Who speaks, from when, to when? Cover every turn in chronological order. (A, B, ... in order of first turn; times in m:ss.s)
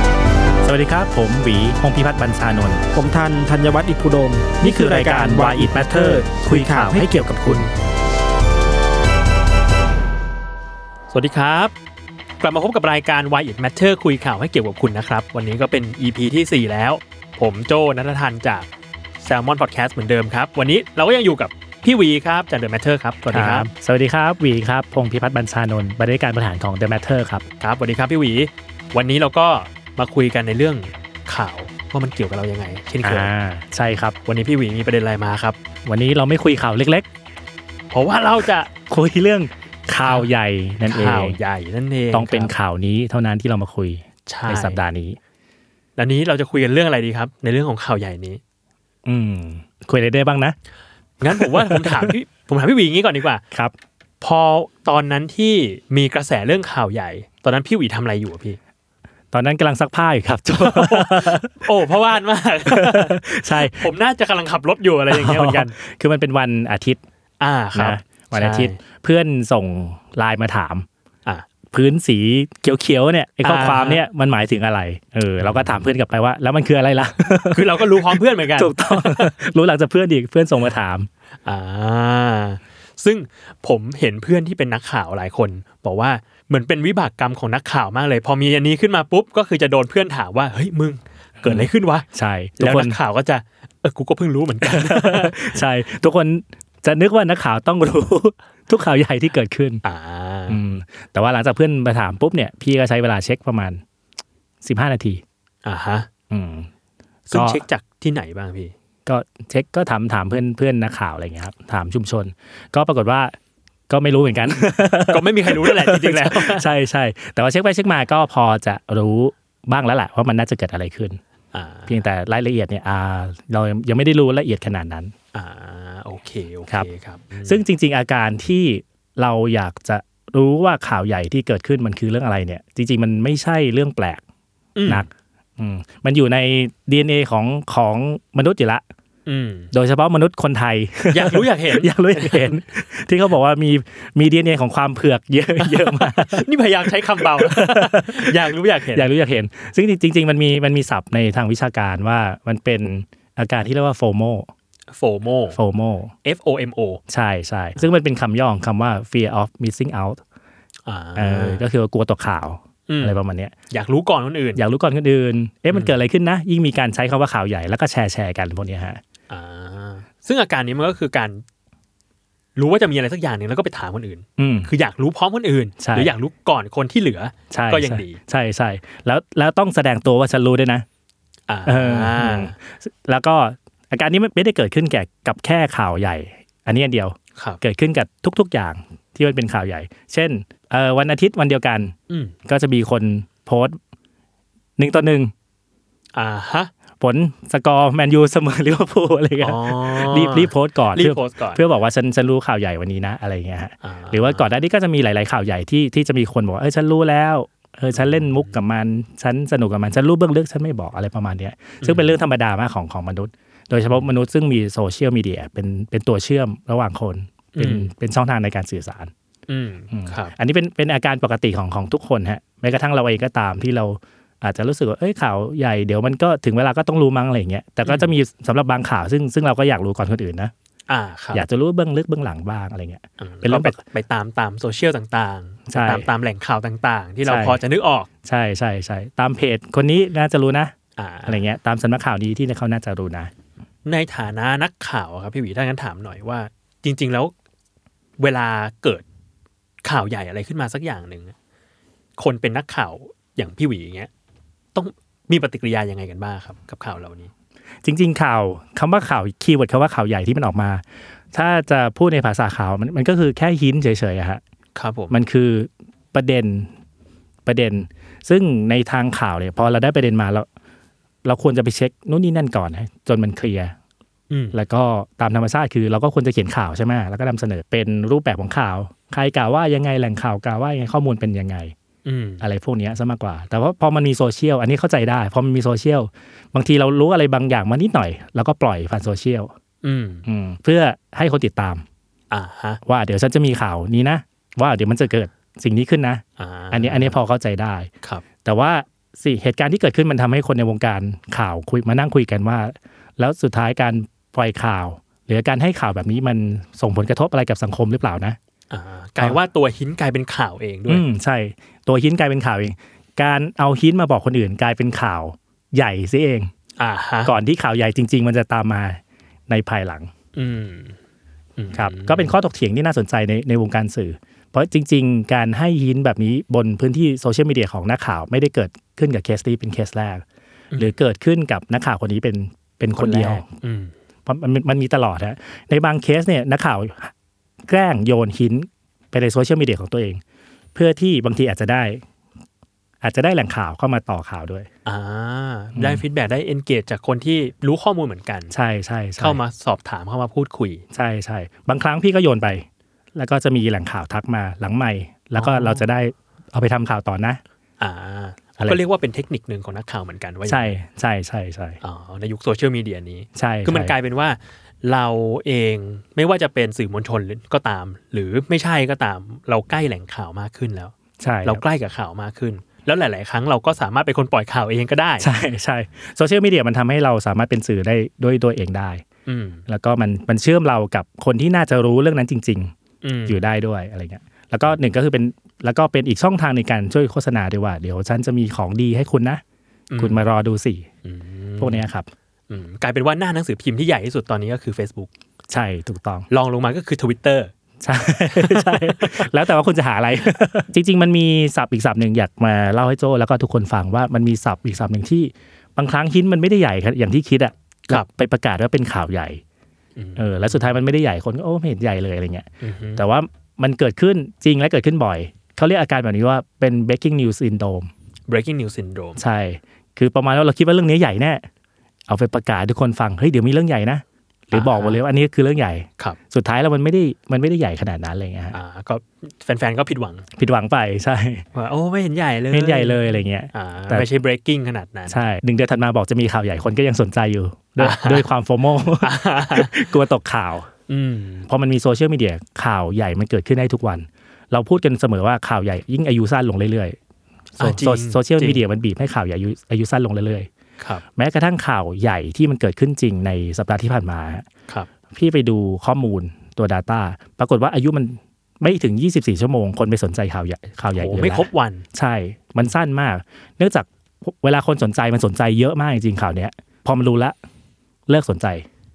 0:00.6-0:02.8 A
0:02.9-0:07.7 B
0:04.6-0:07.7 A
0:11.1-0:11.7 C
0:12.4-0:18.7 C
0:19.2-0:23.7 C
0:23.2-0:27.4 A
0:27.6-0:33.3 C
0:33.0-0:34.2 A
0:34.2-0:35.6 C
0:35.8-0:37.0 A
0:37.9-0:38.7 C
0:38.9-0:41.4 A
0:40.0-0:40.3 C
0:40.8-0:42.5 C
0:42.1-0:45.2 A
0:44.2-0:44.8 C
0:46.0-0:48.4 C
0:49.0-0:50.6 A
0:51.2-0:53.4 C
0:51.2-0:52.2 A
0:54.2-0:58.6 C
0:59.3-1:01.6 A
1:00.6-1:05.7 C
1:02.6-1:03.9 A
1:05.1-1:07.0 A
1:07.4-1:08.8 C
1:07.7-1:10.8 A
1:11.7-1:21.1 A
1:13.4-1:14.0 C
1:15.4-1:15.7 C
1:17.5-1:19.3 C
1:21.4-1:32.0 C
1:31.4-1:33.0 A
1:32.6-1:35.6 C
1:34.6-1:39.8 A
1:39.8-1:40.6 C
1:40.5-1:43.8 A
1:44.6-1:45.2 A
1:45.6-1:46.1 C
1:46.3-1:46.7 A
1:47.3-1:48.7 C
1:47.3-1:47.6 A
1:49.0-1:53.4 A
1:53.9-2:01.2 A
1:55.0-1:56.7 C
2:01.5-2:02.0 C
2:01.9-2:05.1 A
2:05.3-2:07.6 C
2:07.4-2:14.2 A
2:14.8-2:15.1 C
2:14.8-2:18.8 A
2:19.2-2:19.7 C
2:19.7-2:34.5 A
2:21.1-2:22.6 C
2:25.6-2:29.1 C
2:34.9-2:35.6 C
2:35.5-2:36.1 A
2:36.2-2:37.0 C
2:37.1-2:40.2 A
2:40.8-2:41.6 C
2:41.2-2:43.5 A
2:42.9-2:43.2 C
2:43.7-2:44.6 C
2:44.6-2:49.0 A
2:45.7-2:46.0 C
2:49.3-2:51.4 C
2:52.6-2:58.2 C
2:54.4-2:54.7 A
2:55.8-2:56.1 A
2:57.5-3:00.8 A
3:01.5-3:02.5 C
3:01.6-3:11.9 A
3:12.1-3:12.3 C
3:12.5-3:13.8 A
3:14.8-3:15.3 A
3:16.1-3:16.7 C
3:17.0-3:39.1 A
3:19.4-3:21.6 C
3:23.8-3:24.5 C
3:27.9-3:28.6 C
3:31.8-3:32.1 C
3:37.5-3:37.9 C
3:39.5-3:40.3 C
3:39.9-3:50.5 A
3:47.8-3:48.1 C
3:50.9-3:51.4 C
3:51.3-3:53.8 A
3:53.2-3:58.1 C
3:55.7-3:56.1 A
3:57.2-3:57.6 A
3:58.2-4:00.7 A
4:01.0-4:01.4 C
4:01.2-4:03.3 A
4:03.8-4:07.3 C
4:08.2-4:09.0 C
4:09.8-4:11.3 C
4:12.2-4:14.1 C
4:14.7-4:17.3 C
4:17.8-4:24.4 A
4:24.7-4:25.1 C
4:25.1-4:26.7 A
4:27.4-4:30.4 A
4:31.2-4:33.7 A
4:34.3-4:34.6 C
4:34.5-4:41.7 A
4:42.0-4:42.4 C
4:42.4-4:49.5 A
4:49.8-4:50.3 C
4:50.2-4:51.8 A
4:52.3-4:52.8 C
4:52.8-4:57.9 A
4:56.4-4:57.2 C
4:58.4-5:08.4 A
5:08.7-5:11.0 C
5:10.9-5:16.5 A
5:16.8-5:17.3 C
5:17.2-5:20.1 A
5:20.3-5:21.0 C
5:21.6-5:22.3 C
5:21.7-5:30.2 A
5:30.8-5:33.4 A
5:33.0-5:33.9 C
5:34.2-5:37.1 A
5:37.7-5:40.2 A
5:40.7-5:42.0 A
5:43.0-5:44.7 A
5:44.8-5:48.5 C
5:45.7-5:46.0 A
5:48.5-5:49.4 A
5:49.2-5:50.8 C
5:50.9-5:57.4 A
5:55.4-5:55.8 C
5:57.8-6:00.8 C
6:00.4-6:01.8 A
6:01.8-6:10.9 C
6:03.3-6:03.9 A
6:11.2-6:11.6 A
6:11.4-6:15.3 C
6:15.2-6:19.0 A
6:19.2-6:19.6 C
6:19.7-6:22.7 A
6:23.0-6:23.4 C
6:23.3-6:29.4 A
6:29.9-6:30.2 C
6:30.0-6:30.9 A
6:31.0-6:31.8 C
6:31.6-6:32.1 A
6:32.5-6:35.1 C
6:35.5-6:36.3 A
6:36.3-6:37.5 C
6:37.8-6:49.4 A
6:38.3-6:39.3 C
6:50.0-6:50.8 C
6:50.2-6:57.9 A
6:52.6-6:53.0 C
6:58.3-6:59.2 C
6:59.2-7:01.4 A
7:02.1-7:08.6 A
7:04.5-7:05.0 C
7:08.5-7:10.3 C
7:10.4-7:11.4 A
7:11.5-7:15.2 C
7:12.5-7:14.1 A
7:15.1-7:20.7 A
7:17.8-7:18.3 C
7:19.0-7:19.9 C
7:20.9-7:21.5 C
7:21.5-7:27.0 A
7:27.6-7:30.5 A
7:27.6-7:28.6 C
7:30.8-7:31.0 C
7:31.2-7:34.4 A
7:35.1-7:47.4 A
7:40.9-7:41.9 C
7:48.1-7:48.6 A